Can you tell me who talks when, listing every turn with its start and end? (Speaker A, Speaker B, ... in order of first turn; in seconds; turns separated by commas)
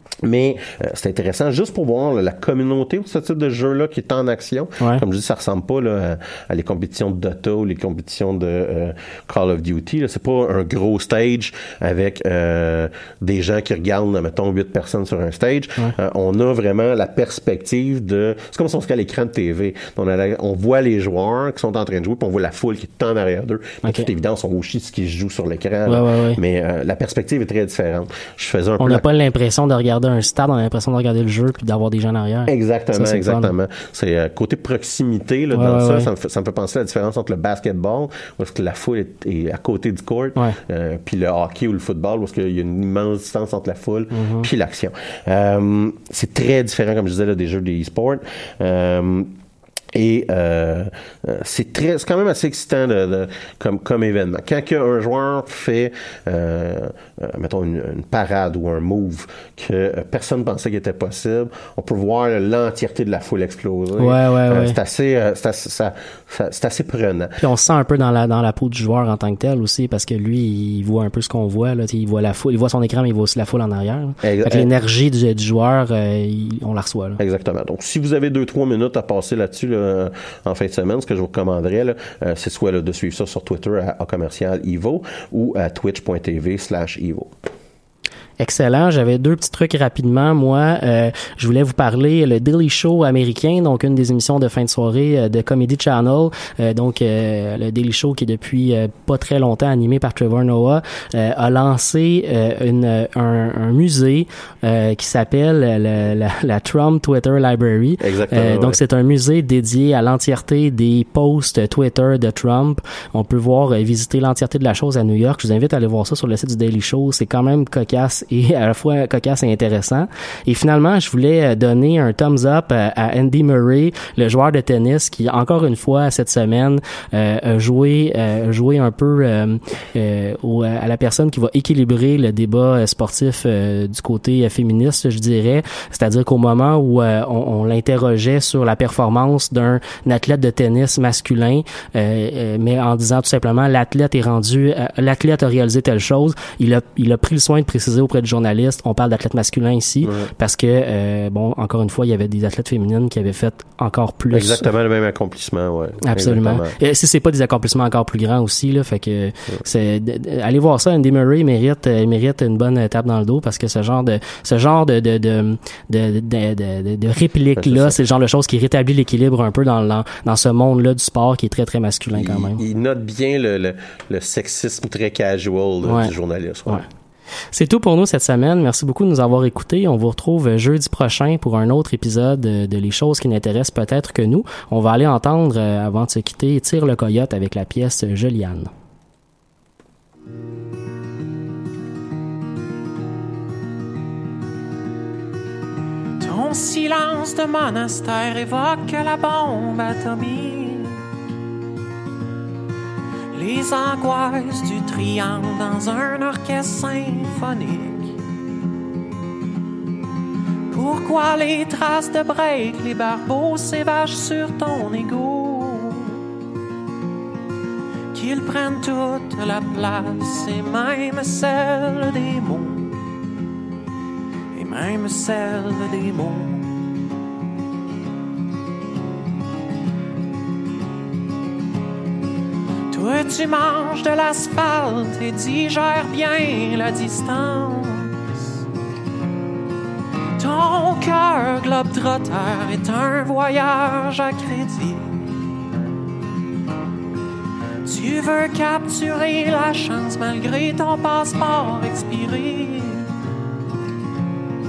Speaker A: 0.2-29.1, Speaker B: 23.8-24.1, Speaker B: 25.9-26.4, Speaker B: 28.8-33.5, Speaker A: 32.5-49.3, Speaker B: 35.5-36.1, Speaker B: 44.1-44.5, Speaker A: 49.9-67.4, Speaker B: 64.0-64.8, Speaker B: 67.4-77.2, Speaker A: 74.2-74.7, Speaker A: 77.2-87.3, Speaker B: 88.4-154.7, Speaker A: 108.0-108.8, Speaker A: 150.0-150.3, Speaker A: 154.3-156.8, Speaker B: 156.0-172.6, Speaker A: 167.6-168.0, Speaker A: 172.1-176.8, Speaker B: 175.8-176.1, Speaker B: 177.5-188.7, Speaker C: 196.2-201.0, Speaker C: 203.3-208.2, Speaker C: 210.7-216.2, Speaker C: 218.1-223.0, Speaker C: 224.5-226.7, Speaker C: 232.9-238.4, Speaker C: 240.4-245.2, Speaker C: 247.9-253.1